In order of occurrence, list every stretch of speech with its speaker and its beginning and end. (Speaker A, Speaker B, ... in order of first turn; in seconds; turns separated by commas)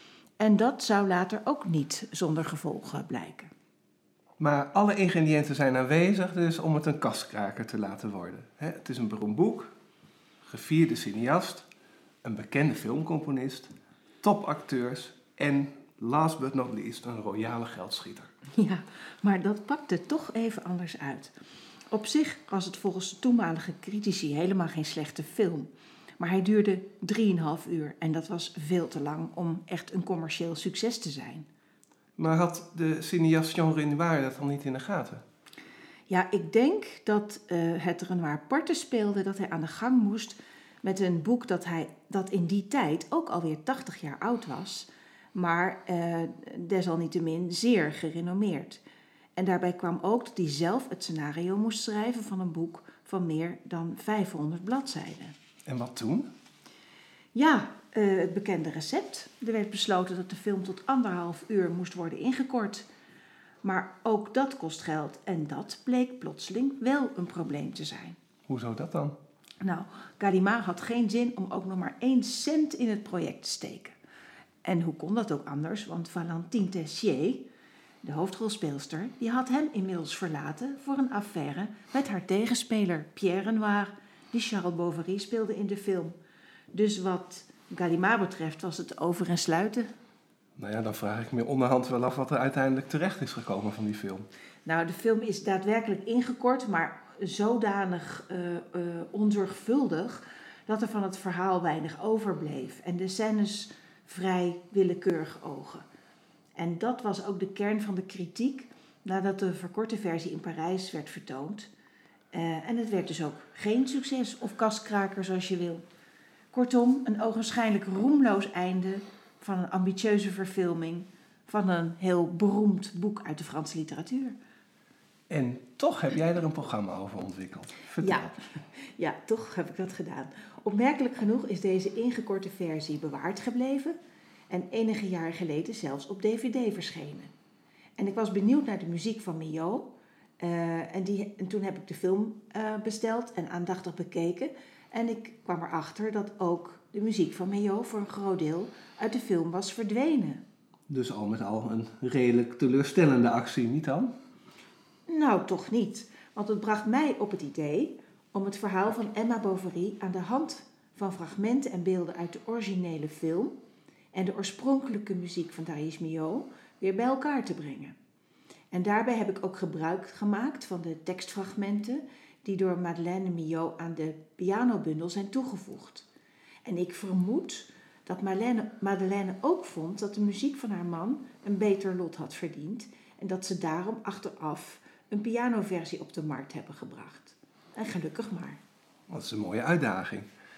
Speaker A: 0.4-3.5, Speaker B: 4.4-9.7, Speaker B: 10.5-11.7, Speaker B: 12.2-18.3, Speaker A: 18.6-21.3, Speaker A: 21.9-31.5, Speaker B: 32.2-35.2, Speaker A: 36.1-48.8, Speaker A: 49.4-55.4, Speaker B: 55.7-56.3, Speaker A: 57.3-62.9, Speaker A: 63.6-68.2, Speaker B: 68.5-69.2, Speaker A: 69.6-74.0, Speaker A: 74.6-77.4, Speaker A: 78.0-86.2, Speaker A: 86.7-89.9, Speaker B: 90.6-94.3, Speaker A: 94.7-105.8, Speaker A: 106.6-111.7, Speaker A: 112.3-115.8, Speaker A: 116.5-124.4, Speaker B: 125.3-128.3, Speaker A: 128.0-128.3, Speaker A: 129.0-133.9, Speaker A: 134.5-137.3, Speaker A: 138.0-150.4, Speaker B: 150.9-154.1, Speaker A: 155.1-163.6, Speaker A: 164.1-167.9, Speaker A: 168.7-176.1, Speaker A: 176.6-188.6, Speaker B: 189.1-190.3